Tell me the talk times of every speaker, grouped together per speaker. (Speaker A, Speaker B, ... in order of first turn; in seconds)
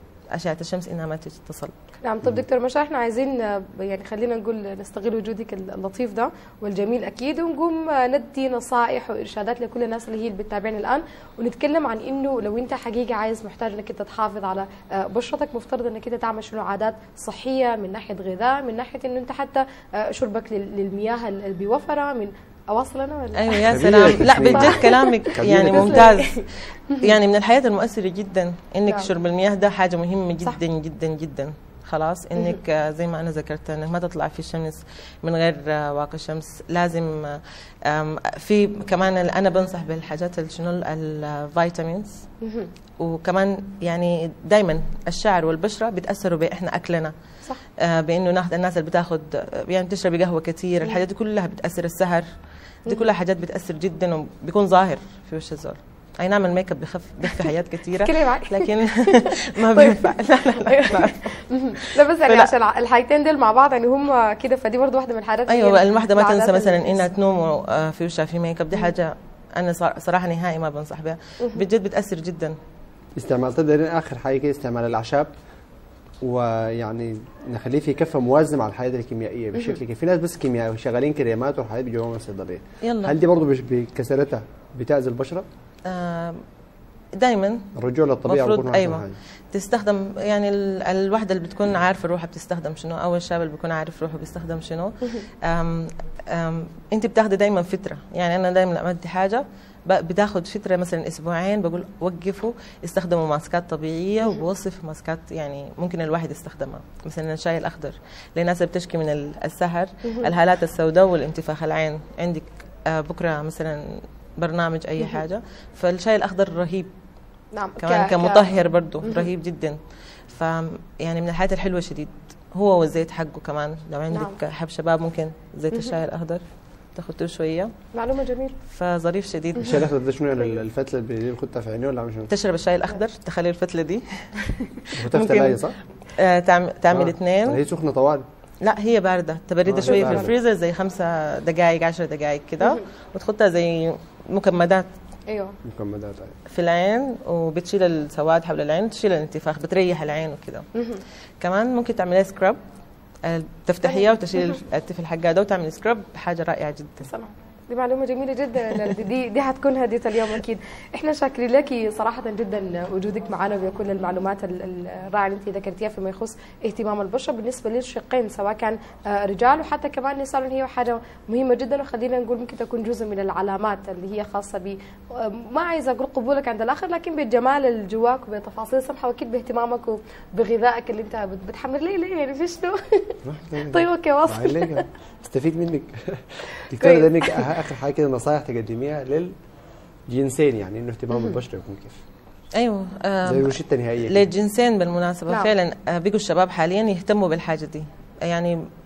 Speaker A: 0.3-1.7, 23.3-42.2, 43.0-47.1, 47.8-52.3, 52.9-62.5, 65.5-72.6, 82.8-83.2, 85.9-86.4, 87.2-87.7, 88.2-116.9, 117.8-126.4, 126.9-127.7, 128.7-129.9, 132.3-137.6, 138.6-144.9, 146.5-150.7, 151.4-152.6, 153.2-157.1, 192.6-198.6
Speaker B: 2.0-27.0, 42.4-42.7, 58.0-67.1, 117.5-119.3, 124.1-124.4, 127.9-128.6, 139.9-140.2, 145.3-145.6, 150.8-151.0, 157.0-183.2, 183.7-184.8, 186.8-187.4, 191.1-191.4
Speaker C: 23.7-26.1, 73.2-75.3, 76.2-85.5, 87.8-89.2, 129.6-132.3, 135.0-135.8, 136.9-138.2, 139.7-140.3, 145.6-146.4, 183.2-189.3, 190.1-192.0, 193.2-194.3